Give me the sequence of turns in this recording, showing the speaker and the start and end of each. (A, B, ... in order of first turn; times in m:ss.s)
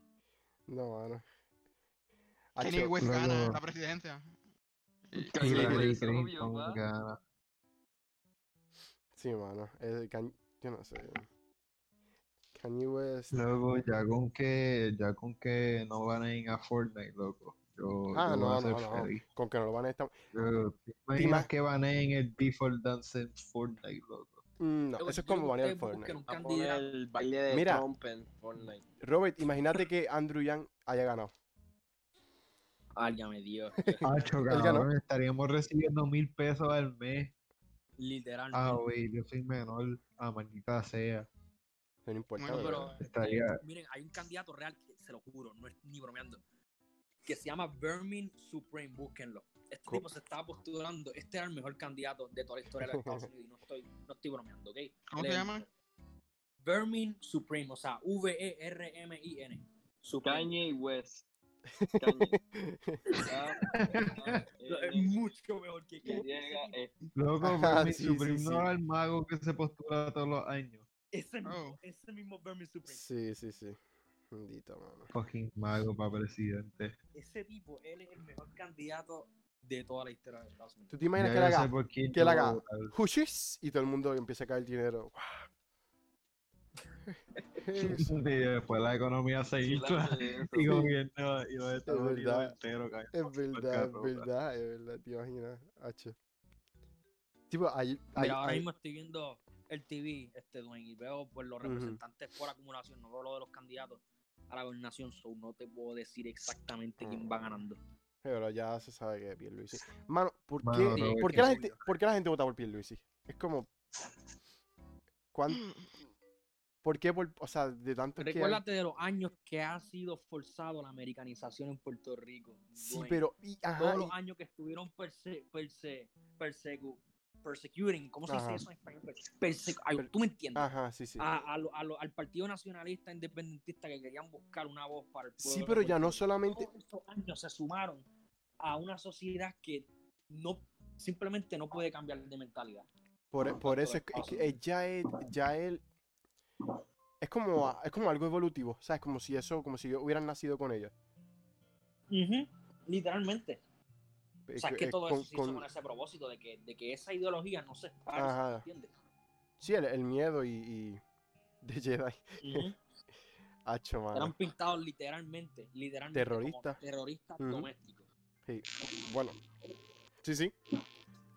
0:00.7-0:01.2 A
0:02.6-0:03.1 A
0:02.6-0:04.3 B
0:03.0-0:03.6 C
0:05.1-0:05.9 B
0:05.1-0:06.8 D
0:05.4-0:07.2 C
0:09.2-0:11.3 A
0:12.5-0:13.3 A
0:13.3-0:19.2 C
0:18.1-0:20.1 A
0:20.3-0:24.4 C
0:21.2-0:21.5 A
0:24.6-0:26.2 A
0:25.0-0:26.9 E
0:26.3-0:28.8 F
0:27.5-0:27.9 A
0:29.0-0:31.3 A
0:33.0-0:34.1 E
0:33.8-0:34.9 A
0:34.0-0:37.3 C
0:38.0-0:38.8 E
0:38.5-0:41.3 C
0:42.1-0:42.9 A
0:42.4-0:42.9 B
0:42.5-0:46.4 E
0:43.0-0:43.6 C
0:47.2-0:55.6 E
0:52.8-0:53.2 A
0:55.1-0:55.6 B
0:56.6-1:00.6 E
1:00.2-1:01.2 D
1:01.7-1:03.0 A
1:02.0-1:02.4 D
1:03.2-1:05.2 D
1:03.7-1:04.4 C
1:04.6-1:06.8 E
1:06.0-1:06.9 D
1:07.2-1:10.8 C
1:07.4-1:08.7 A
1:11.1-1:13.1 E
1:11.4-1:11.8 B
1:12.9-1:13.8 A
1:14.3-1:15.1 A
1:15.1-1:17.0 C
1:17.1-1:20.9 E
1:20.9-1:25.5 A
1:21.2-1:22.9 C
1:27.1-1:28.1 A
1:27.8-1:34.3 C
1:29.6-1:30.8 D
1:31.9-1:32.6 A
1:33.1-1:36.1 A
1:37.5-1:38.7 A
1:38.2-1:47.8 E
1:41.6-1:42.0 A
1:47.0-1:47.6 A
1:48.2-1:53.7 A
1:50.6-1:51.5 C
1:50.9-1:51.9 E
1:55.3-1:55.7 A
1:56.8-1:58.6 A
1:58.2-2:03.2 E
2:02.8-2:04.1 A
2:03.8-2:18.1 E
2:08.3-2:08.6 A
2:10.0-2:11.2 A
2:15.4-2:16.7 A
2:18.6-2:22.9 E
2:23.3-2:25.8 A
2:23.4-2:24.5 E
2:27.2-2:30.9 A
2:32.1-2:33.6 E
2:34.5-2:35.6 A
2:34.6-2:38.9 E
2:38.2-2:38.6 A
2:39.6-2:41.0 A
2:41.6-2:42.7 A
2:42.4-2:42.8 E
2:43.6-2:44.3 A
2:44.1-2:48.1 E
2:46.1-2:46.8 A
2:47.4-2:47.7 A
2:48.4-2:49.4 A
2:50.2-2:50.5 A